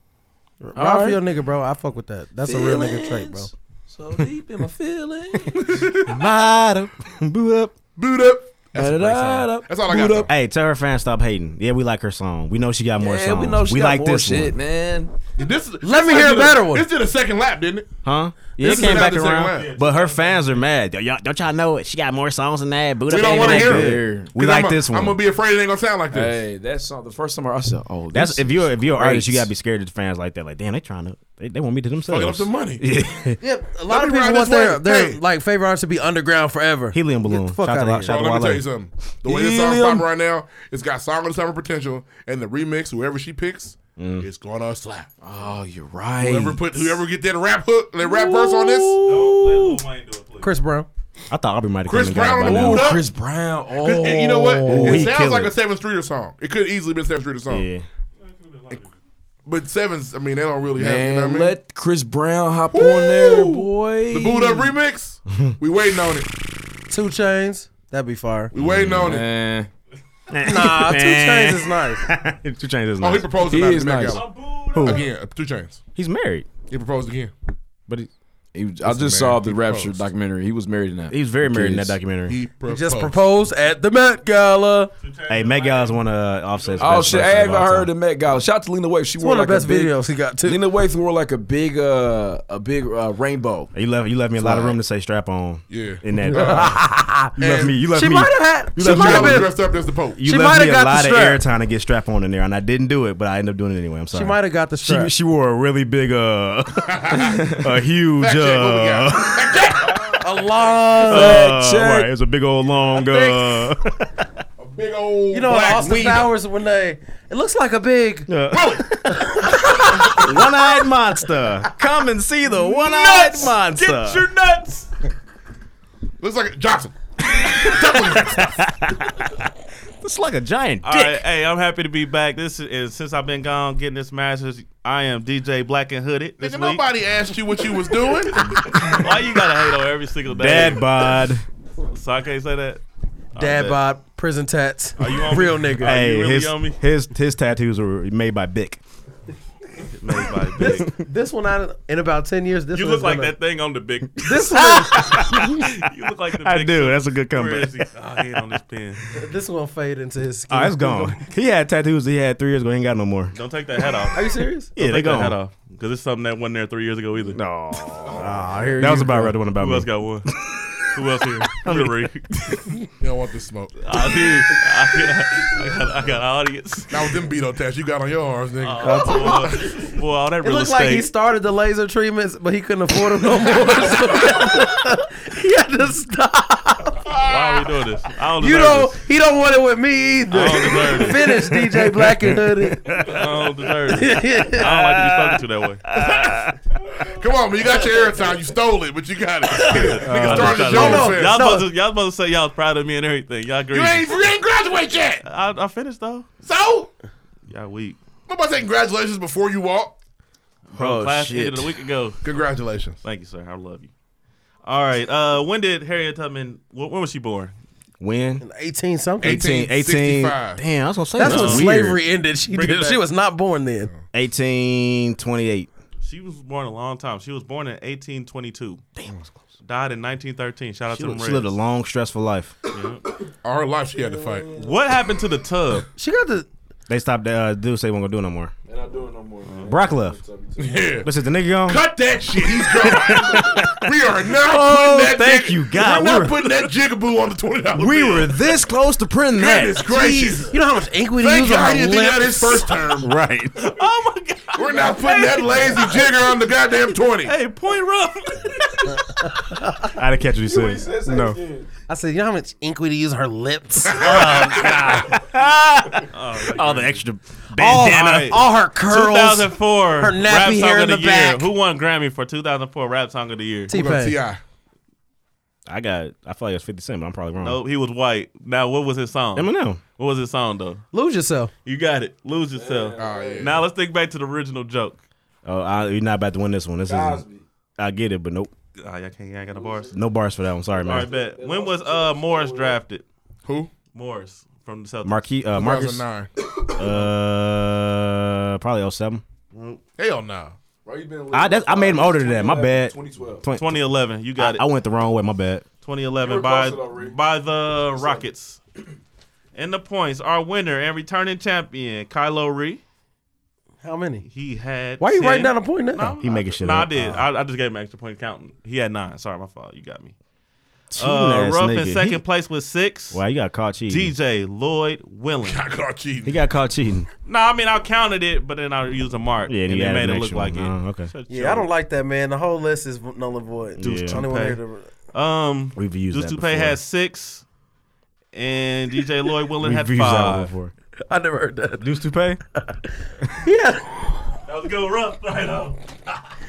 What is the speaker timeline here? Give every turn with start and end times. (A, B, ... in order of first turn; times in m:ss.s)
0:00.6-0:03.5 A
0:00.8-0:01.2 B
0:02.5-0:05.8 B
0:05.4-0:07.8 C
0:05.6-0:06.2 D
0:08.0-0:10.3 D
0:08.8-0:10.3 B
0:10.3-0:14.6 C
0:13.0-0:15.1 B
0:15.4-0:17.9 D
0:15.8-0:16.9 A
0:18.0-0:25.2 C
0:18.6-0:19.8 D
0:18.9-0:20.6 E
0:23.0-0:26.4 D
0:23.2-0:24.4 B
0:26.1-0:29.5 B
0:28.1-0:33.4 C
0:32.1-0:32.8 D
0:33.4-0:38.1 A
0:33.9-0:35.2 D
0:36.9-0:38.7 C
0:38.1-0:45.1 D
0:39.3-0:40.1 B
0:44.0-0:44.3 C
0:45.2-0:47.0 B
0:46.2-0:49.0 D
0:48.0-0:49.8 B
0:49.0-0:50.5 E
0:50.4-0:50.9 A
0:51.3-0:53.0 C
0:51.9-0:53.1 D
0:52.4-0:55.1 B
0:53.7-0:57.7 D
0:54.6-0:55.5 C
0:57.5-0:57.9 C
0:58.2-0:58.9 E
0:59.5-1:01.6 D
1:00.8-1:04.8 B
1:02.7-1:06.3 D
1:06.9-1:08.5 A
1:08.5-1:09.3 D
1:08.6-1:09.2 C
1:09.0-1:09.7 B
1:10.3-1:13.4 C
1:10.4-1:12.0 A
1:13.0-1:14.3 D
1:13.4-1:14.2 B
1:14.0-1:15.1 E
1:14.7-1:15.0 C
1:14.8-1:15.8 D
1:16.0-1:16.5 C
1:16.7-1:17.3 D
1:18.5-1:22.0 B
1:18.8-1:20.1 D
1:21.1-1:22.4 C
1:22.3-1:23.2 D
1:22.7-1:24.9 A
1:25.0-1:27.7 E
1:25.3-1:27.9 C
1:26.8-1:33.7 B
1:29.2-1:30.6 A
1:33.7-1:36.8 C
1:34.4-1:34.7 B
1:35.7-1:36.8 D
1:36.3-1:37.3 A
1:37.4-1:39.5 C
1:37.4-1:37.8 D
1:37.9-1:39.5 A
1:38.8-1:40.2 D
1:40.2-1:50.0 C
1:40.2-1:41.4 A
1:44.1-1:45.1 A
1:46.9-1:47.4 D
1:47.3-1:47.6 B
1:48.2-1:50.2 D
1:50.2-1:51.5 A
1:51.1-1:52.1 B
1:51.1-1:54.2 C
1:53.1-1:53.3 A
1:54.6-1:56.3 D
1:55.3-1:58.3 A
1:55.9-1:56.2 C
1:58.3-2:04.3 C
1:58.5-1:59.0 D
1:59.0-2:00.5 A
2:02.5-2:05.0 E
2:06.2-2:08.6 D
2:07.3-2:09.4 C
2:10.0-2:11.2 C
2:10.8-2:16.9 E
2:16.4-2:18.6 D
2:18.1-2:21.1 E
2:18.7-2:19.0 C
2:20.3-2:21.4 C
2:21.8-2:22.8 E
2:23.3-2:23.8 E
2:23.4-2:26.0 A
2:25.0-2:26.8 E
2:25.8-2:28.8 C
2:29.9-2:30.9 E
2:30.6-2:30.9 C
2:30.6-2:33.3 A
2:32.7-2:39.1 E
2:34.2-2:35.5 A
2:34.5-2:35.7 C
2:36.4-2:38.2 C
2:39.1-2:41.2 A
2:40.5-2:43.4 C
2:43.3-2:47.4 E
2:44.1-2:44.7 A
2:44.8-2:45.4 C
2:47.3-2:50.9 C
2:48.2-2:48.5 D
2:48.2-2:49.3 A
2:49.5-2:50.3 E
2:50.9-2:52.2 E
2:51.5-2:52.7 C
2:53.0-2:53.8 D
2:53.8-2:57.0 E
2:56.9-2:59.8 D
2:58.6-3:01.1 E
2:58.9-2:59.2 C
2:58.9-2:59.5 A
3:00.4-3:07.1 A
3:07.1-3:07.7 D
3:07.2-3:09.0 E
3:08.4-3:13.0 A
3:10.3-3:11.6 E
3:11.3-3:13.5 C
3:12.9-3:16.1 E
3:13.9-3:14.7 A
3:14.5-3:16.6 C
3:17.0-3:21.4 D
3:19.6-3:24.3 E
3:20.0-3:21.0 C
3:20.5-3:21.7 A
3:23.7-3:25.2 D
3:25.2-3:26.3 E
3:26.4-3:26.9 D
3:27.5-3:28.0 E
3:28.3-3:30.0 D
3:30.7-3:32.2 E
3:30.8-3:31.7 C
3:32.2-3:33.0 D
3:33.0-3:33.9 E
3:34.6-3:37.5 E
3:38.0-3:38.4 C
3:38.4-3:39.4 A
3:39.2-3:42.0 C
3:39.2-3:40.6 D
3:41.2-3:43.9 A
3:41.2-3:41.7 E
3:42.5-3:43.0 E
3:44.1-3:45.7 C
3:46.0-3:48.8 E
3:49.0-3:49.3 C
3:49.6-3:51.6 E
3:50.9-3:52.6 C
3:52.7-3:53.1 E
3:53.4-3:54.5 D
3:54.0-3:54.8 B
3:54.5-3:55.9 E
3:56.0-3:56.5 A
3:56.9-3:58.5 C
3:58.7-4:00.9 B
3:59.5-3:59.7 E
3:59.7-4:00.2 C
4:00.6-4:01.1 D
4:01.0-4:01.8 C
4:01.6-4:08.5 D
4:02.6-4:06.7 C
4:03.1-4:03.4 B
4:07.7-4:10.5 C
4:09.4-4:10.6 D
4:10.5-4:12.7 A
4:11.2-4:13.2 D
4:13.0-4:13.6 C
4:13.6-4:19.6 E
4:14.6-4:17.4 D
4:19.2-4:19.9 A
4:19.9-4:21.4 C
4:20.4-4:21.7 B
4:21.9-4:25.1 A
4:23.9-4:25.0 D
4:24.0-4:28.4 C
4:26.1-4:27.1 E
4:27.6-4:31.5 A
4:27.6-4:33.7 E
4:33.7-4:34.2 A
4:33.7-4:34.4 D
4:35.7-4:37.6 C
4:37.4-4:40.8 E
4:39.4-4:39.8 C
4:40.9-4:41.5 A
4:41.6-4:45.0 E
4:42.6-4:43.5 B
4:43.0-4:43.6 D
4:45.4-4:47.2 C
4:46.9-4:47.4 B
4:47.8-4:48.5 C
4:48.8-4:50.0 E
4:49.6-4:50.0 B
4:49.9-4:51.1 C
4:50.7-4:52.8 B
4:50.9-4:53.0 E
4:53.4-4:53.7 D
4:53.9-4:55.3 E
4:55.0-4:56.0 C
4:55.5-4:56.3 D
4:56.4-4:57.0 B
4:56.8-4:59.2 C
4:59.5-4:59.8 E
5:00.0-5:00.6 D
5:00.8-5:03.5 B
5:01.3-5:03.8 C
5:03.5-5:04.6 E
5:04.4-5:05.6 C
5:05.8-5:08.6 E
5:06.2-5:07.2 B
5:07.8-5:08.3 B
5:09.6-5:12.8 E
5:13.8-5:14.3 A
5:14.3-5:20.1 E
5:15.0-5:16.2 A
5:16.2-5:17.2 C
5:20.9-5:22.2 C
5:21.0-5:23.2 E
5:23.1-5:24.1 C
5:23.9-5:25.6 E
5:25.4-5:26.4 D
5:26.2-5:27.1 C
5:27.3-5:31.7 E
5:29.5-5:31.1 C
5:31.3-5:34.9 A
5:33.8-5:34.2 C
5:33.8-5:34.6 E
5:35.1-5:37.4 E
5:35.8-5:36.8 C
5:38.3-5:40.5 E
5:39.6-5:40.7 C
5:41.1-5:41.9 A
5:41.8-5:42.4 C
5:43.4-5:44.2 A
5:44.4-5:46.0 E